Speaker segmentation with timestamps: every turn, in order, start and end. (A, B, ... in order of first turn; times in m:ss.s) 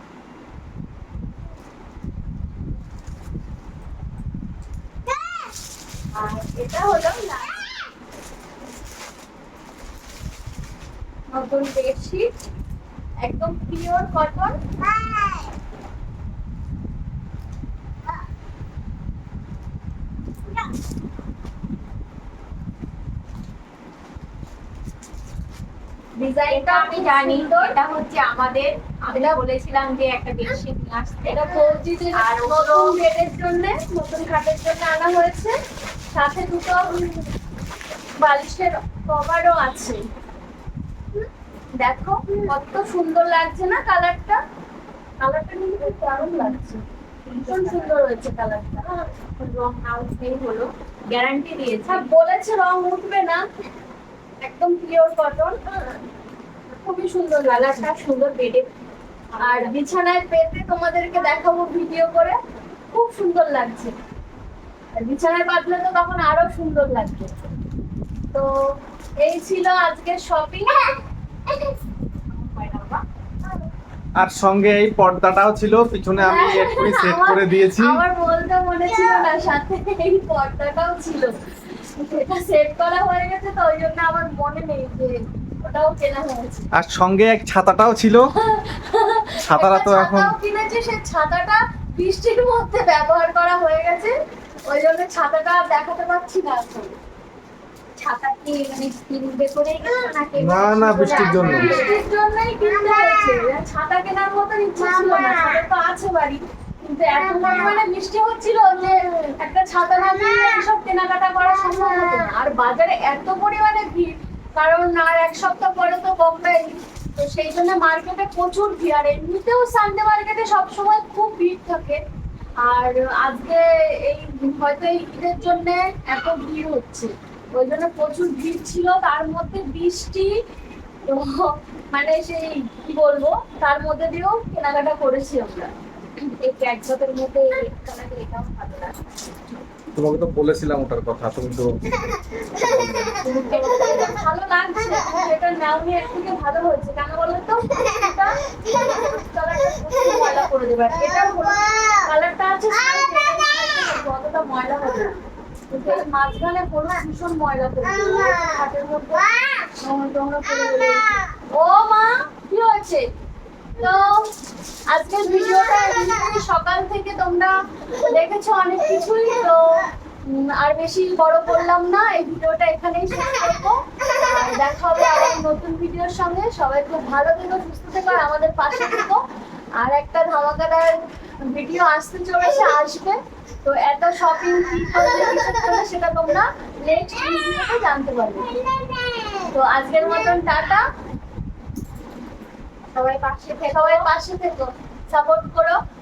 0:06.1-0:07.6 A
0:11.3-0:12.3 A
0:13.2-0:14.6 A
0:26.2-0:33.0 B
0:26.5-0:27.8 A
0:29.1-0:29.4 A
0:31.3-0:35.6 A
0:36.1-0:37.0 A
0:38.2-0:40.0 A
0:41.8-0:44.4 A
0:45.2-0:46.8 A
0:47.4-0:48.0 B
0:47.4-0:49.0 A
0:49.3-0:52.1 B
0:51.9-0:53.4 A
0:54.4-0:55.6 A
0:56.9-0:58.7 B
0:56.9-0:57.2 A
0:59.3-0:59.8 B
0:59.4-1:02.4 A
1:02.9-1:03.9 A
1:04.9-1:07.3 A
1:09.2-1:11.0 A
1:12.6-1:13.6 A
1:14.2-1:18.0 C
1:16.2-1:26.7 A
1:26.8-1:28.3 C
1:28.5-1:34.2 A
1:29.4-1:30.4 C
1:34.7-1:37.0 A
1:38.0-1:42.0 B
1:40.4-1:41.8 C
1:41.0-2:02.0 A
2:02.6-2:10.3 A
2:11.0-2:15.7 A
2:16.2-2:18.9 A
2:20.0-2:21.7 C
2:22.6-2:23.2 C
2:23.3-2:23.9 B
2:23.4-2:35.2 A
2:35.7-2:43.1 A
2:43.8-2:44.3 A
2:44.9-2:59.2 A
2:59.8-3:01.0 A
3:01.5-3:08.6 A
3:09.4-3:10.8 A
3:13.0-3:14.1 B
3:13.7-3:15.8 A